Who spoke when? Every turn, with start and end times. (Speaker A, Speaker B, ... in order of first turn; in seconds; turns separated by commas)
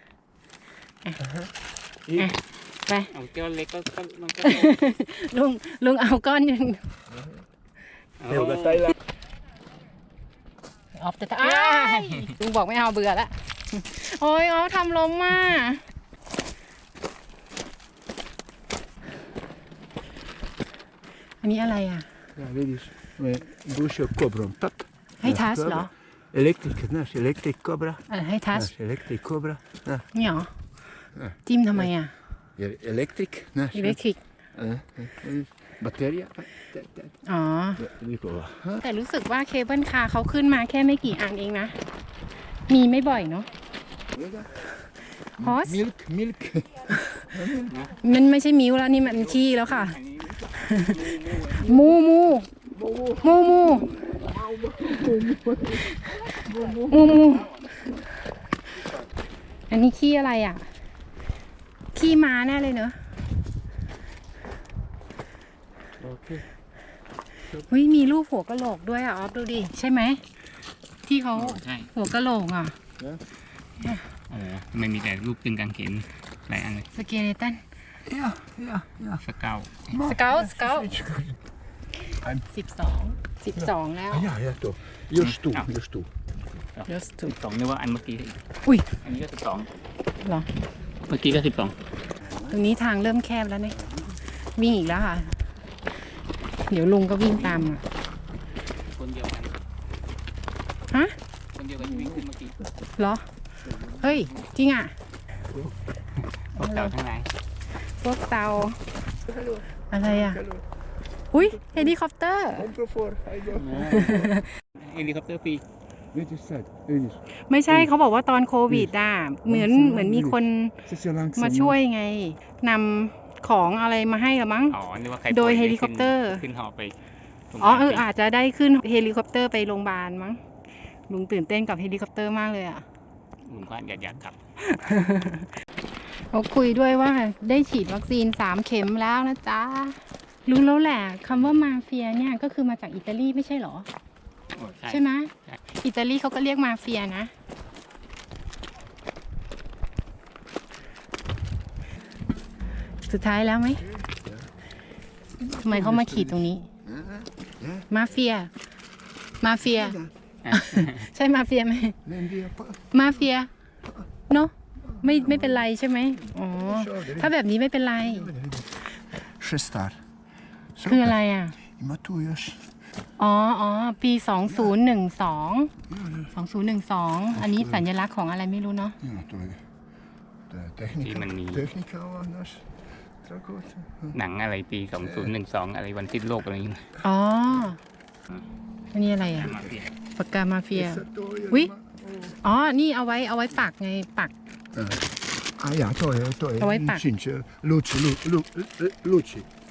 Speaker A: 1.2-1.5, Speaker A: 2.1-2.3, Speaker B: 2.1-3.1, Speaker C: 3.1-4.8, Speaker B: 4.4-6.8, Speaker A: 7.1-7.4, Speaker C: 8.2-8.9, Speaker A: 8.3-8.9, Speaker B: 10.9-15.8, Speaker C: 11.4-12.3, Speaker B: 21.4-22.1, Speaker A: 22.4-30.1, Speaker B: 25.2-25.9, Speaker B: 28.1-28.7, Speaker B: 30.1-30.5, Speaker A: 31.1-31.9, Speaker B: 31.4-32.1, Speaker A: 32.6-34.0, Speaker B: 33.7-34.2, Speaker A: 34.5-37.1, Speaker B: 37.2-37.8, Speaker A: 37.8-38.8, Speaker B: 38.8-41.8, Speaker B: 42.7-43.5, Speaker A: 44.1-44.6, Speaker A: 45.4-47.9, Speaker B: 45.4-45.8, Speaker C: 47.7-47.9, Speaker B: 48.0-50.0, Speaker C: 49.2-51.8, Speaker A: 50.2-50.5, Speaker B: 50.5-51.0, Speaker A: 51.1-51.5, Speaker B: 51.5-52.5, Speaker A: 52.7-57.5, Speaker B: 53.2-53.9, Speaker B: 55.9-57.9, Speaker B: 59.7-60.6, Speaker B: 61.9-63.0, Speaker A: 66.0-66.4, Speaker B: 67.6-70.2, Speaker B: 71.0-72.8, Speaker C: 71.3-71.9, Speaker C: 74.3-76.9, Speaker B: 76.9-77.6, Speaker A: 78.0-79.2, Speaker C: 79.2-79.9, Speaker A: 79.9-81.4, Speaker B: 80.0-80.9, Speaker A: 82.2-82.5, Speaker B: 82.5-84.3, Speaker A: 83.6-86.1, Speaker C: 85.3-85.7, Speaker C: 86.7-88.4, Speaker B: 86.9-87.3, Speaker C: 88.9-89.7, Speaker B: 90.2-90.5, Speaker C: 91.1-91.7, Speaker A: 92.2-92.6, Speaker B: 92.5-93.8, Speaker A: 93.8-94.1, Speaker B: 94.5-95.4, Speaker B: 96.7-97.8, Speaker C: 98.8-99.6, Speaker B: 100.9-101.2, Speaker C: 101.5-102.6, Speaker A: 101.8-102.2, Speaker B: 103.0-103.2, Speaker A: 103.7-104.3, Speaker B: 104.0-104.9, Speaker C: 106.5-107.3, Speaker B: 106.6-106.9, Speaker B: 107.8-108.8, Speaker A: 109.3-110.7, Speaker B: 109.9-110.4, Speaker B: 111.3-112.7, Speaker A: 111.3-112.0, Speaker A: 112.5-114.2, Speaker C: 113.5-115.6, Speaker B: 113.8-114.5, Speaker A: 116.1-117.9, Speaker B: 117.5-120.8, Speaker A: 118.7-118.9, Speaker A: 119.4-121.8, Speaker B: 121.4-124.8, Speaker C: 124.7-126.9, Speaker B: 125.3-126.4, Speaker C: 127.5-128.0, Speaker B: 127.6-130.4, Speaker B: 131.1-132.8, Speaker C: 133.4-134.4, Speaker B: 134.6-135.5, Speaker B: 136.3-143.9, Speaker C: 144.5-145.6, Speaker B: 144.9-147.3, Speaker B: 153.1-153.8, Speaker A: 153.8-154.5, Speaker A: 155.4-157.9, Speaker B: 155.6-156.7, Speaker B: 157.9-158.5, Speaker B: 159.4-160.0, Speaker A: 159.6-160.1, Speaker C: 160.4-161.1, Speaker B: 160.5-162.0, Speaker A: 162.0-163.1, Speaker B: 162.9-163.5, Speaker B: 164.3-168.3, Speaker A: 164.8-165.7, Speaker A: 166.2-167.3, Speaker A: 168.0-170.0, Speaker A: 170.7-172.7, Speaker B: 170.8-171.6, Speaker B: 173.2-175.7, Speaker A: 175.9-176.3, Speaker B: 176.3-179.0, Speaker A: 177.3-177.8, Speaker A: 179.0-179.6, Speaker A: 180.5-184.2, Speaker C: 181.0-181.7, Speaker C: 184.1-186.9, Speaker A: 185.0-185.3, Speaker B: 187.0-187.8, Speaker B: 188.9-189.5, Speaker C: 189.4-189.9, Speaker A: 189.4-189.8, Speaker B: 190.2-191.7, Speaker A: 190.7-192.3, Speaker B: 192.4-194.3, Speaker A: 194.7-199.5, Speaker B: 196.6-197.0